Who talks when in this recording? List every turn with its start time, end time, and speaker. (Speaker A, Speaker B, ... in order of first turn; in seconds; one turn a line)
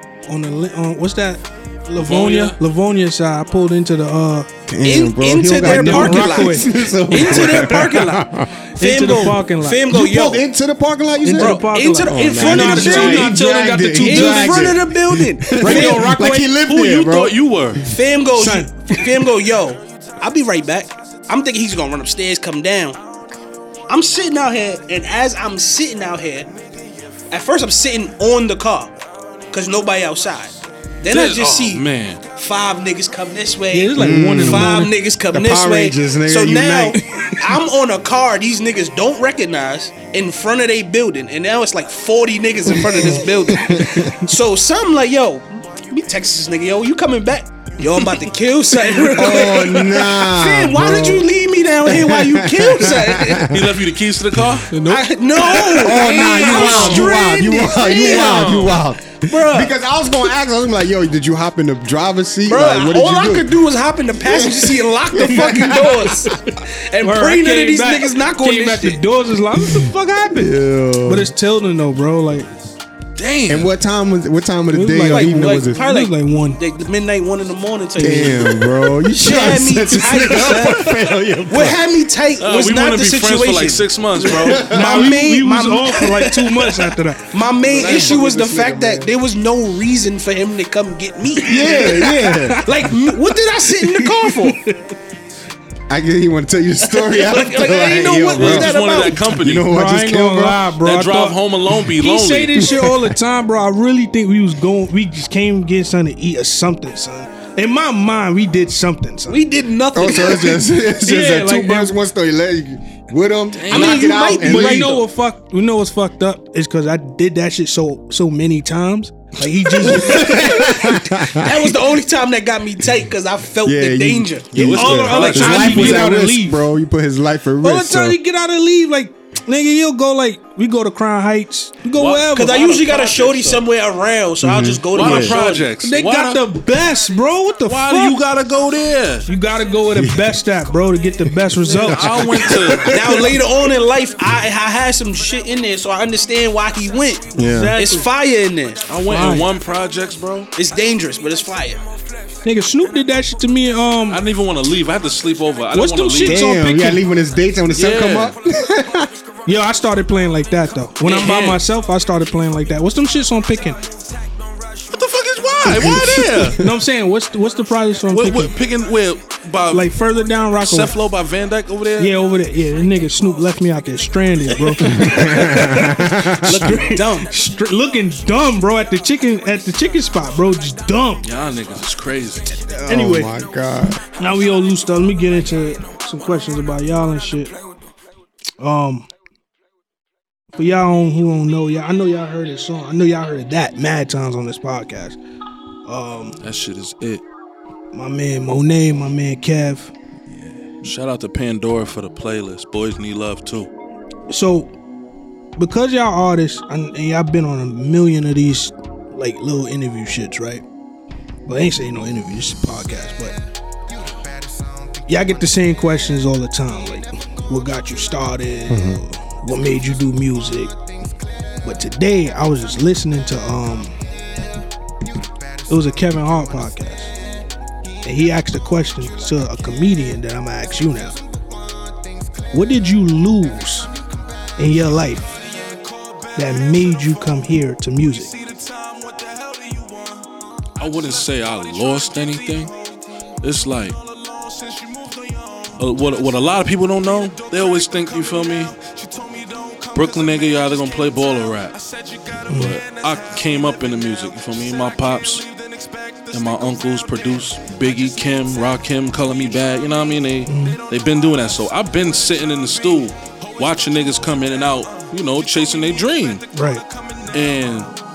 Speaker A: 0.3-4.5
Speaker B: 2.0-2.6
Speaker C: 4.7-8.5
Speaker D: 4.8-10.4
Speaker A: 5.4-7.7
Speaker A: 8.8-9.9
Speaker C: 9.9-17.9
Speaker A: 11.2-14.8
Speaker D: 11.3-13.4
Speaker D: 14.0-16.2
Speaker A: 15.6-16.5
Speaker B: 15.8-17.9
Speaker D: 17.9-23.0
Speaker A: 18.3-19.0
Speaker D: 23.9-26.5
Speaker D: 27.3-29.0
Speaker D: 29.5-53.5
Speaker B: 31.1-32.2
Speaker A: 33.7-34.9
Speaker C: 34.0-34.8
Speaker C: 35.3-37.0
Speaker A: 37.1-37.5
Speaker C: 42.7-44.2
Speaker C: 49.1-53.7
Speaker B: 53.5-54.8
Speaker A: 54.7-56.8
Speaker D: 54.8-59.8
Speaker C: 55.7-63.6
Speaker B: 56.0-57.2
Speaker B: 58.0-58.8
Speaker D: 62.5-69.0
Speaker C: 64.2-66.1
Speaker A: 67.0-72.5
Speaker C: 69.6-71.3
Speaker B: 73.2-73.7
Speaker C: 73.5-75.8
Speaker A: 74.7-76.6
Speaker D: 75.1-94.6
Speaker C: 78.0-81.8
Speaker B: 82.4-84.7
Speaker C: 84.2-85.1
Speaker A: 84.6-87.3
Speaker B: 87.7-88.3
Speaker C: 87.7-89.1
Speaker C: 91.4-92.7
Speaker A: 91.5-93.0
Speaker A: 93.8-94.9
Speaker C: 95.9-100.8
Speaker D: 96.8-99.3
Speaker B: 98.4-99.7
Speaker A: 99.7-109.4
Speaker B: 100.8-102.7
Speaker C: 102.6-103.1
Speaker D: 109.3-110.7
Speaker C: 109.9-115.0
Speaker A: 111.0-112.0
Speaker B: 113.5-114.2
Speaker D: 113.7-115.0
Speaker A: 113.8-121.0
Speaker C: 119.8-121.8
Speaker D: 120.3-124.6
Speaker C: 123.6-128.2
Speaker B: 124.5-126.1
Speaker A: 124.6-126.6
Speaker A: 127.6-133.6
Speaker B: 131.9-132.7
Speaker D: 132.3-135.7
Speaker C: 134.4-135.4
Speaker B: 134.9-136.4
Speaker A: 135.8-138.2
Speaker B: 137.7-139.3
Speaker A: 139.3-142.6
Speaker C: 139.9-140.4
Speaker C: 141.3-143.2
Speaker B: 141.9-143.0
Speaker D: 142.8-148.8
Speaker C: 147.3-147.8
Speaker A: 147.3-148.1
Speaker B: 148.9-150.5
Speaker A: 149.1-149.5
Speaker D: 150.6-151.8
Speaker A: 152.4-154.2
Speaker B: 154.1-156.4
Speaker A: 155.7-157.0
Speaker C: 156.2-159.1
Speaker B: 157.7-158.4
Speaker A: 159.5-163.8
Speaker B: 161.0-161.6
Speaker B: 164.9-166.6
Speaker C: 165.6-166.6
Speaker A: 166.5-168.5
Speaker B: 168.1-170.0
Speaker A: 169.7-170.9
Speaker B: 170.6-172.1
Speaker A: 172.0-181.3
Speaker C: 174.8-176.9
Speaker D: 176.4-177.3
Speaker B: 181.2-182.6
Speaker C: 182.8-184.0
Speaker A: 182.9-183.3
Speaker A: 184.2-187.6
Speaker A: 188.6-189.1
Speaker A: 190.6-195.2
Speaker A: 195.9-196.4
Speaker B: 196.4-197.2
Speaker A: 197.9-199.9
Speaker B: 200.8-203.7
Speaker A: 204.3-204.7
Speaker A: 205.6-210.6
Speaker A: 211.5-213.3
Speaker A: 215.1-220.7
Speaker C: 218.7-219.0
Speaker A: 221.6-223.9
Speaker A: 225.7-227.1
Speaker A: 228.0-231.2
Speaker A: 232.5-233.9
Speaker A: 234.6-235.4
Speaker A: 236.3-238.3
Speaker B: 240.8-242.7
Speaker B: 243.4-244.0
Speaker B: 245.8-248.8
Speaker B: 249.9-251.8
Speaker A: 252.5-252.8
Speaker B: 252.5-255.5
Speaker B: 256.3-266.4
Speaker A: 260.5-260.8
Speaker A: 266.5-266.8
Speaker B: 267.3-267.9